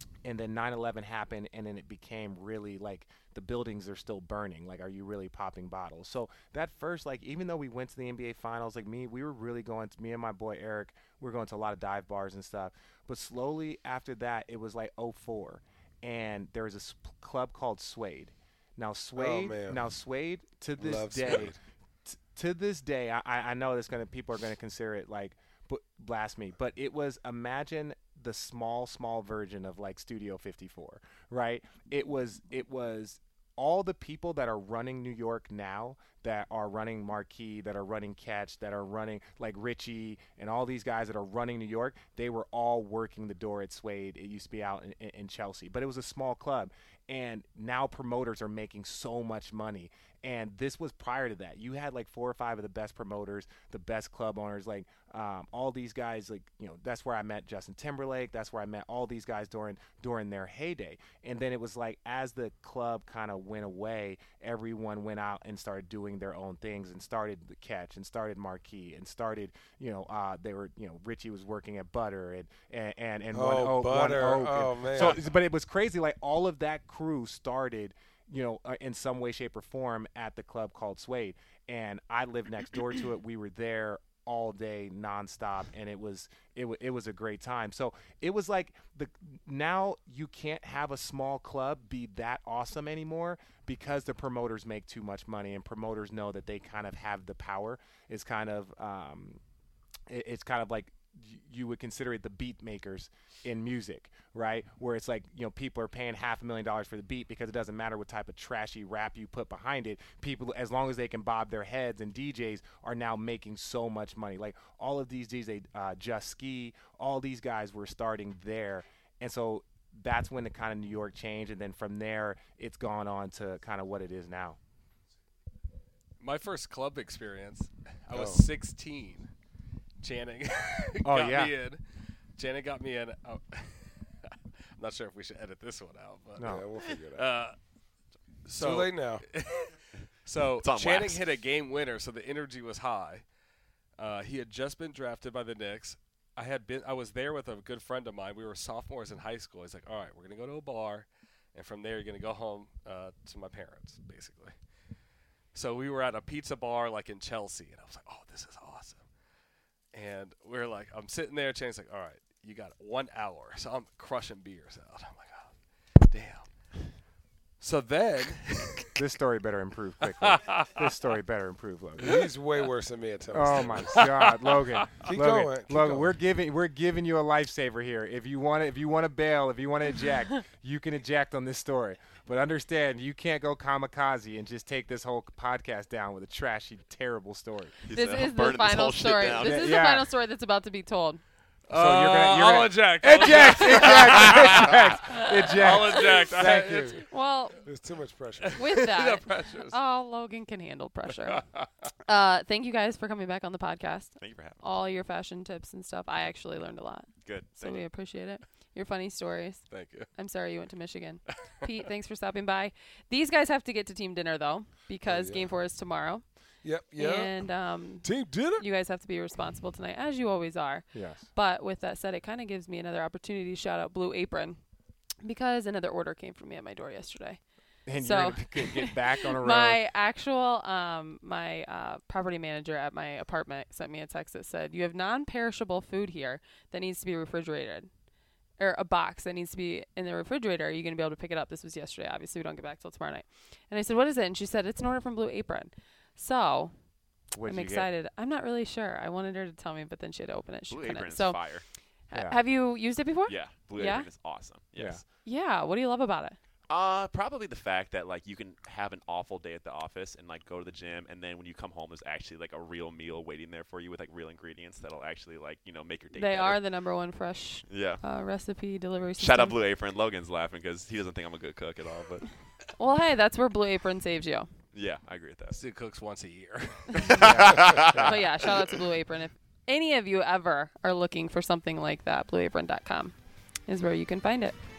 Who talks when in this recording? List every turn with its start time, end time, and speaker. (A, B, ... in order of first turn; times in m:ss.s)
0:00.2-1:39.4 A
0:19.2-0:19.8 B
0:20.8-0:21.6 B
1:13.3-1:15.2 B
1:40.1-2:04.6 A
2:06.2-2:09.3 C
2:08.1-2:08.5 B
2:10.0-2:11.8 C
2:11.0-2:11.5 A
2:12.4-2:17.6 C
2:16.4-2:16.7 A
2:16.4-2:17.4 B
2:18.4-2:23.2 C
2:18.5-2:19.3 B
2:20.6-2:21.2 D
2:20.8-2:21.1 B
2:24.0-2:34.6 C
2:35.5-2:39.0 C
2:39.9-2:46.5 C
2:47.6-2:49.0 C
2:49.0-2:52.3 A
2:50.2-2:50.8 C
2:52.0-2:54.1 B
2:53.3-3:07.7 A
2:53.6-2:55.1 C
2:55.0-2:56.1 B
3:07.8-3:09.9 D
3:07.9-3:11.2 E
3:09.4-3:10.1 A
3:11.7-3:17.0 C
3:11.7-3:17.0 A
3:13.0-3:13.9 B
3:16.1-3:16.9 B
3:17.0-3:17.6 E
3:17.6-3:18.7 B
3:18.4-3:19.8 C
3:18.6-3:21.4 E
3:21.3-3:21.7 C
3:22.0-3:36.2 E
3:24.2-3:24.6 D
3:27.2-3:27.8 D
3:29.7-3:30.1 C
3:35.0-3:35.6 B
3:36.6-3:37.5 B
3:37.0-3:44.6 E
3:38.0-3:38.7 B
3:40.9-3:41.3 A
3:45.2-3:47.4 E
3:47.9-3:49.8 A
3:48.0-3:57.9 E
3:58.6-4:06.7 E
4:07.3-4:07.9 A
4:07.4-4:11.4 E
4:10.7-4:11.6 D
4:12.1-4:14.1 E
4:13.3-4:15.0 D
4:14.8-4:15.0 A
4:15.2-4:16.4 E
4:16.7-4:26.6 D
4:26.1-4:29.6 E
4:27.7-4:28.0 D
4:29.2-4:32.3 D
4:32.8-4:34.5 E
4:34.7-4:35.6 D
4:35.5-4:37.1 C
4:36.9-4:37.2 E
4:37.0-4:38.2 D
4:37.2-4:38.1 A
4:37.9-4:43.1 E
4:43.7-4:44.6 E